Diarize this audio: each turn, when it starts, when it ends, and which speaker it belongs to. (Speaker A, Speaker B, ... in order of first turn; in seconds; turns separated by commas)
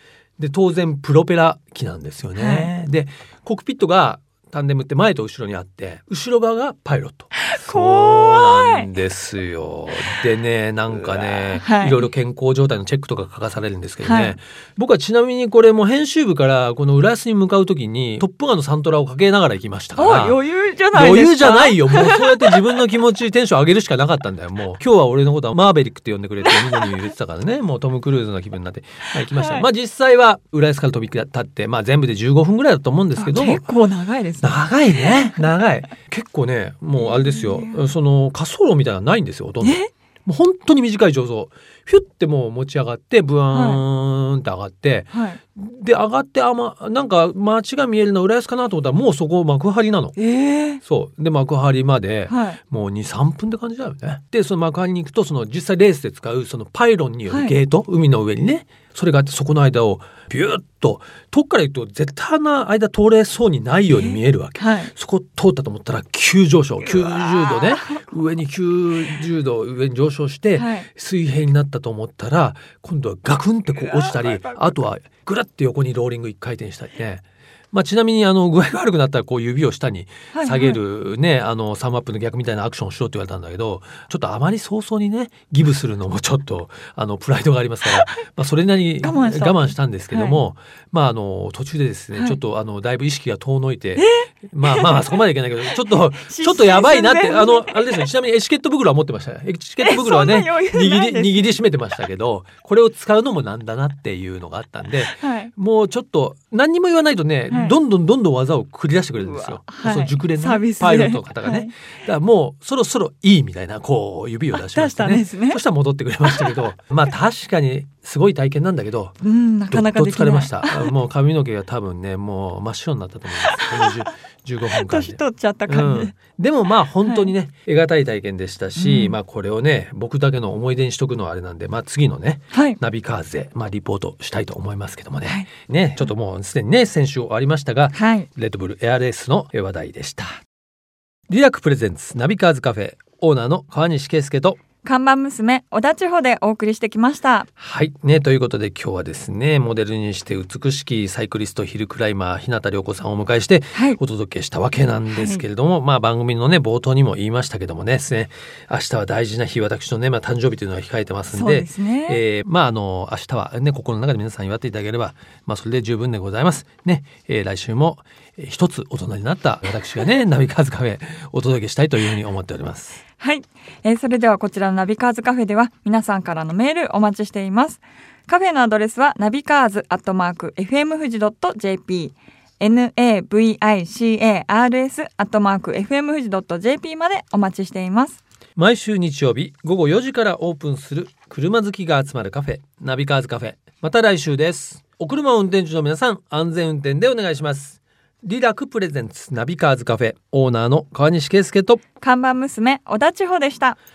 Speaker A: 0.4-20.4, Speaker B: 2.4-2.7, Speaker B: 7.3-8.9, Speaker B: 11.5-12.1, Speaker B: 14.0-14.3, Speaker B: 20.0-22.6, Speaker A: 20.9-33.6, Speaker B: 26.4-26.9, Speaker B: 29.2-29.7, Speaker B: 33.2-35.5, Speaker A: 34.4-50.1, Speaker B: 37.1-37.8, Speaker B: 39.6-39.9, Speaker B: 43.5-43.8, Speaker B: 45.1-45.4, Speaker B: 50.2-50.8, Speaker A: 50.8-119.2, Speaker B: 52.3-52.6, Speaker B: 57.3-57.5, Speaker B: 63.9-64.9, Speaker B: 67.0-68.0, Speaker B: 70.5-70.9, Speaker B: 73.8-74.7, Speaker B: 80.3-80.8, Speaker B: 88.0-88.2, Speaker B: 89.0-90.4, Speaker B: 94.0-98.1, Speaker B: 99.8-101.5, Speaker B: 105.2-105.5, Speaker B: 107.5-107.8, Speaker B: 109.2-111.7, Speaker B: 114.5-115.6, Speaker B: 116.2-116.5, Speaker B: 119.2-120.9, Speaker A: 119.7-140.4, Speaker B: 123.4-124.1, Speaker B: 124.7-126.1, Speaker B: 127.0-127.3, Speaker B: 128.8-129.2, Speaker B: 132.5-132.8, Speaker B: 137.9-138.3, Speaker A: 141.3-144.6, Speaker B: 144.8-147.5, Speaker A: 147.6-173.0, Speaker B: 153.7-154.0, Speaker B: 155.1-155.4, Speaker B: 161.3-162.2, Speaker B: 173.2-188.2, Speaker A: 188.6-201.8, Speaker B: 202.0-203.8